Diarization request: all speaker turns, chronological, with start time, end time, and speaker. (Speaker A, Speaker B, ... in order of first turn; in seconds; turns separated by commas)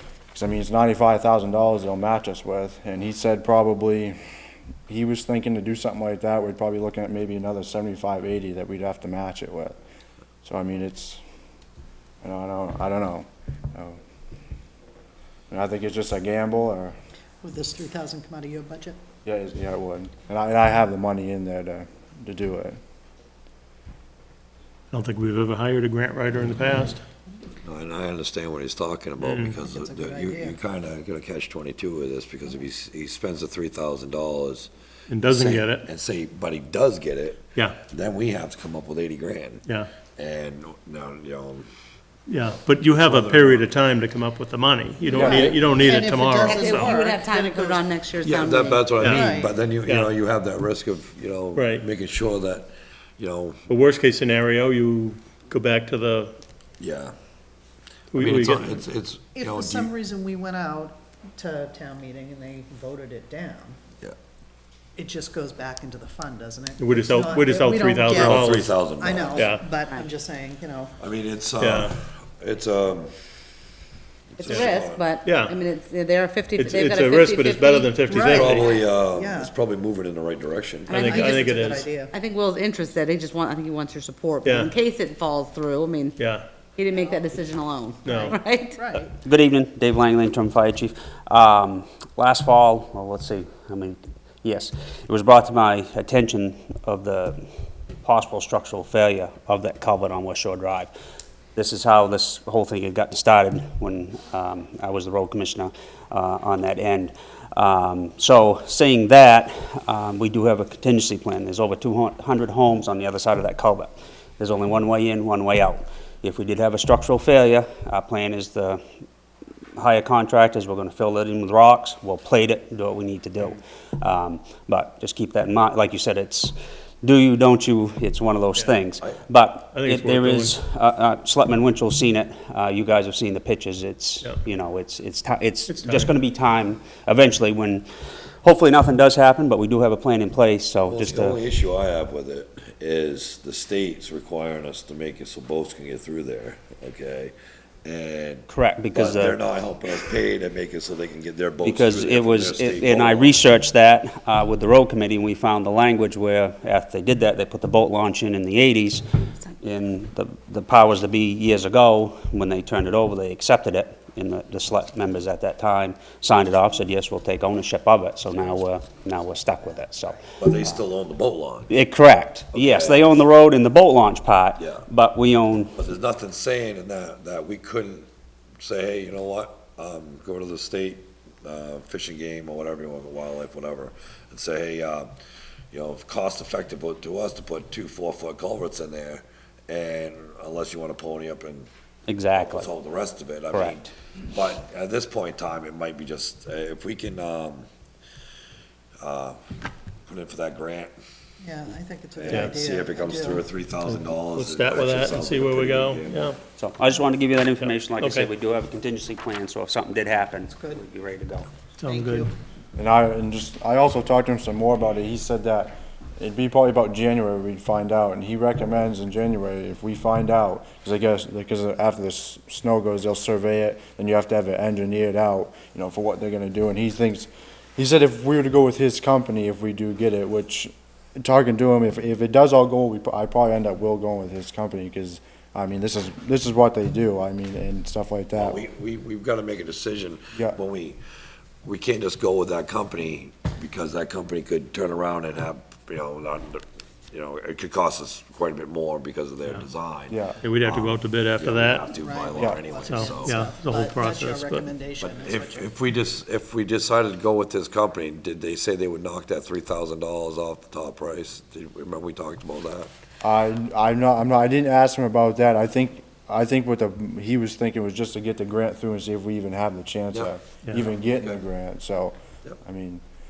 Speaker A: 0.3-4.2, Speaker A: 4.9-9.8, Speaker A: 10.4-11.2, Speaker A: 12.2-14.0, Speaker A: 15.5-16.9, Speaker B: 17.4-19.0, Speaker A: 19.2-22.8, Speaker C: 24.9-27.0, Speaker D: 27.6-34.7, Speaker C: 29.2-29.6, Speaker B: 29.6-30.6, Speaker C: 35.1-35.8, Speaker D: 35.2-39.6, Speaker D: 40.2-41.7, Speaker C: 42.3-47.0, Speaker D: 43.0-43.6, Speaker A: 45.1-45.6, Speaker B: 45.1-47.9, Speaker E: 46.4-49.0, Speaker D: 48.2-53.6, Speaker C: 49.0-49.3, Speaker B: 49.0-49.5, Speaker C: 51.5-51.8, Speaker C: 53.7-56.3, Speaker D: 56.8-57.1, Speaker C: 58.1-58.7, Speaker D: 58.1-59.9, Speaker B: 59.4-63.8, Speaker B: 65.0-70.9, Speaker C: 66.8-68.7, Speaker D: 68.1-69.5, Speaker C: 69.3-69.7, Speaker E: 69.8-70.1, Speaker D: 71.0-73.1, Speaker C: 71.6-71.9, Speaker D: 74.3-75.0, Speaker E: 74.4-78.0, Speaker C: 75.2-75.6, Speaker C: 76.6-78.8, Speaker B: 78.0-79.5, Speaker D: 78.2-81.1, Speaker E: 80.9-86.2, Speaker C: 80.9-81.9, Speaker B: 81.0-82.1, Speaker C: 84.5-84.7, Speaker C: 86.2-86.5, Speaker E: 86.8-88.8, Speaker C: 88.1-88.3, Speaker B: 88.8-89.1, Speaker F: 89.2-97.4, Speaker F: 98.0-100.9, Speaker F: 101.5-118.8, Speaker F: 119.8-137.9, Speaker C: 129.7-130.5, Speaker C: 135.7-136.1, Speaker F: 138.4-141.4, Speaker D: 140.9-153.4, Speaker F: 148.5-149.4, Speaker F: 151.6-170.8, Speaker D: 170.4-171.8, Speaker F: 171.7-175.8, Speaker D: 172.5-173.2, Speaker D: 174.6-174.8, Speaker D: 175.8-178.1, Speaker D: 178.6-185.1, Speaker D: 185.7-191.7, Speaker F: 192.1-192.7, Speaker D: 192.4-197.7, Speaker F: 193.5-193.8, Speaker D: 199.0-199.4, Speaker D: 200.1-200.9, Speaker B: 201.4-203.5, Speaker D: 202.2-206.3, Speaker C: 202.3-202.6, Speaker C: 203.9-206.4, Speaker F: 206.6-211.5, Speaker C: 207.6-208.3, Speaker B: 210.5-210.8, Speaker C: 211.8-212.3, Speaker B: 211.8-212.3, Speaker A: 212.8-238.6, Speaker D: 238.3-241.0, Speaker D: 241.6-253.4, Speaker A: 250.1-250.4, Speaker C: 250.4-251.9, Speaker B: 251.9-255.6, Speaker C: 252.9-254.7, Speaker D: 255.0-262.9, Speaker A: 263.2-273.0, Speaker D: 270.1-271.4